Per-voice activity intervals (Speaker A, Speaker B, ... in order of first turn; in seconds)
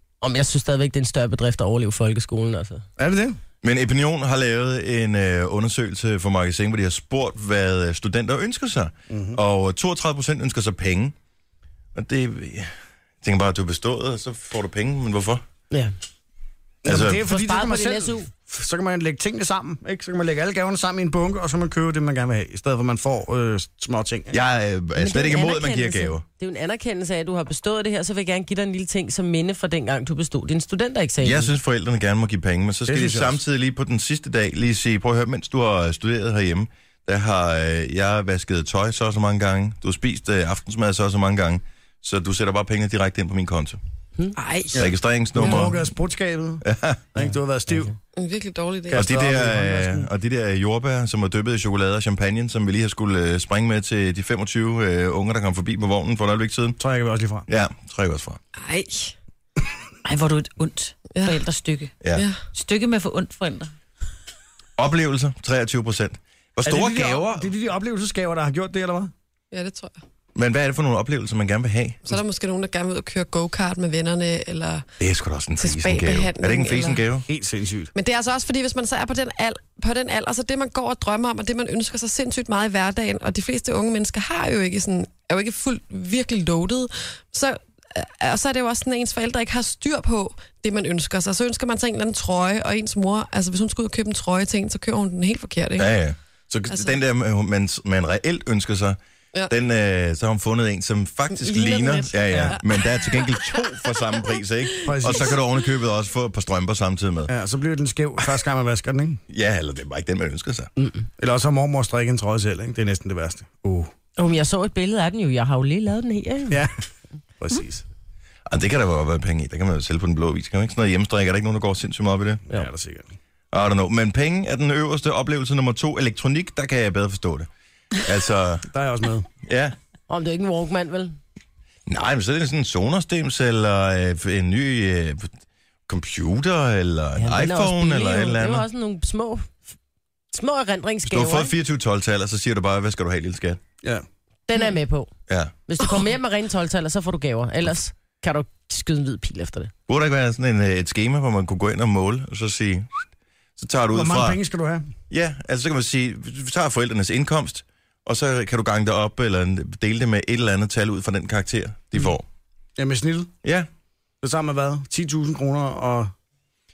Speaker A: 0.2-2.8, 17.2-18.3, 24.9-31.5, 110.8-111.0, 114.2-116.6, 130.1-131.2, 137.2-139.6, 140.3-141.5, 144.5-145.1, 145.7-149.7
Speaker B: 3.0-3.4, 9.1-9.4, 16.8-24.4, 32.9-33.4, 44.7-47.9, 48.9-50.1, 56.8-57.5, 66.6-69.1, 77.3-77.9, 102.3-102.6, 104.8-105.4, 107.3-109.2, 111.2-113.9, 116.5-116.7, 117.4-117.8, 122.5-123.1, 128.7-129.3, 153.9-154.9, 162.8-163.3, 164.2-166.1
Speaker C: 3.6-11.1, 11.9-15.4, 16.9-17.2, 24.3-26.2, 31.2-43.8, 44.8-45.8, 46.6-47.0, 48.9-56.8, 57.5-58.4, 62.0-62.2, 64.8-67.5, 70.3-72.0, 75.0-77.2, 95.8-107.3, 109.3-110.7, 118.5-122.4, 123.5-128.7, 129.4-129.7, 131.9-135.3, 135.9-138.7, 141.0-143.6, 145.3-145.5, 149.9-154.4, 155.1-162.2
Speaker D: 44.4-44.7, 60.0-61.9, 62.5-63.7
Speaker E: 48.1-49.1, 58.6-59.1, 69.5-69.9, 72.0-74.8, 75.6-77.0, 77.9-96.0, 96.7-97.0, 101.3-103.7, 105.0-105.3